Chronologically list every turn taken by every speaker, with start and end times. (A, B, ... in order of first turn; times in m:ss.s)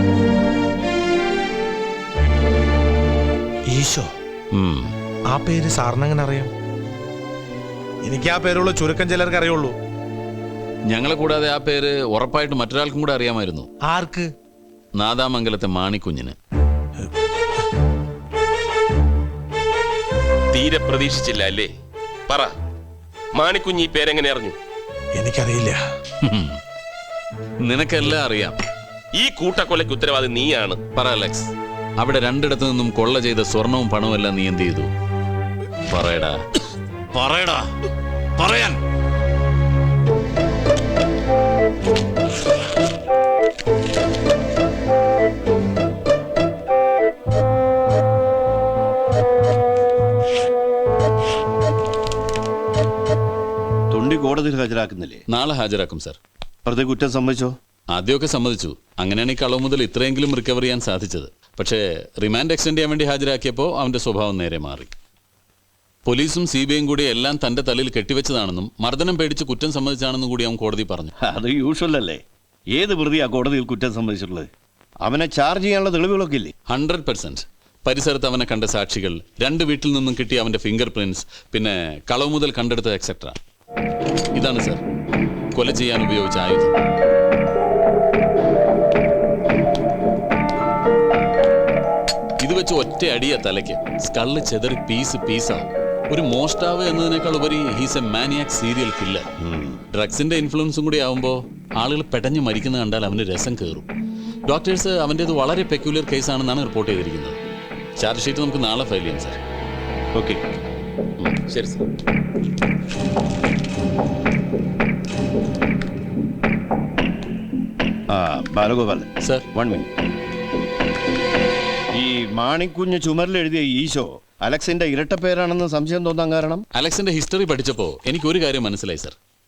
0:03.7-0:04.1 A
0:04.5-0:04.9 B
0:05.3-0:06.5 A
0:08.0-0:09.7 A
0:10.9-0:13.7 B
0:13.8-0:14.3 A
0:15.0-0:16.4 B
0:20.5-0:21.7 C
0:23.4-0:24.6 C
0:25.2-0:25.8 A
0:26.2-0:26.6 B
0:27.6-0:28.6 B
0:29.2-0:30.8 C
0:30.9-0:34.9 B
0:35.9-0:36.4 B
0:37.1-0:37.7 B
0:38.4-0:38.8 B
0:53.9-0:55.2 D
0:55.3-0:56.2 B
0:56.6-0:57.5 D
0:57.9-1:04.9 B
1:06.0-1:11.1 B
1:11.2-1:14.5 D
1:15.0-1:16.5 D
1:16.7-1:23.4 B
1:24.3-1:24.8 B
1:25.5-1:26.7 B
1:32.4-1:39.2 B
1:39.4-1:39.8 D
1:39.9-1:43.9 B
1:44.5-1:47.4 B
1:48.0-1:49.4 B
1:50.1-1:50.4 D
1:51.5-1:51.8 C
1:58.1-1:59.9 D
2:01.9-2:06.6 D
2:06.7-2:09.2 B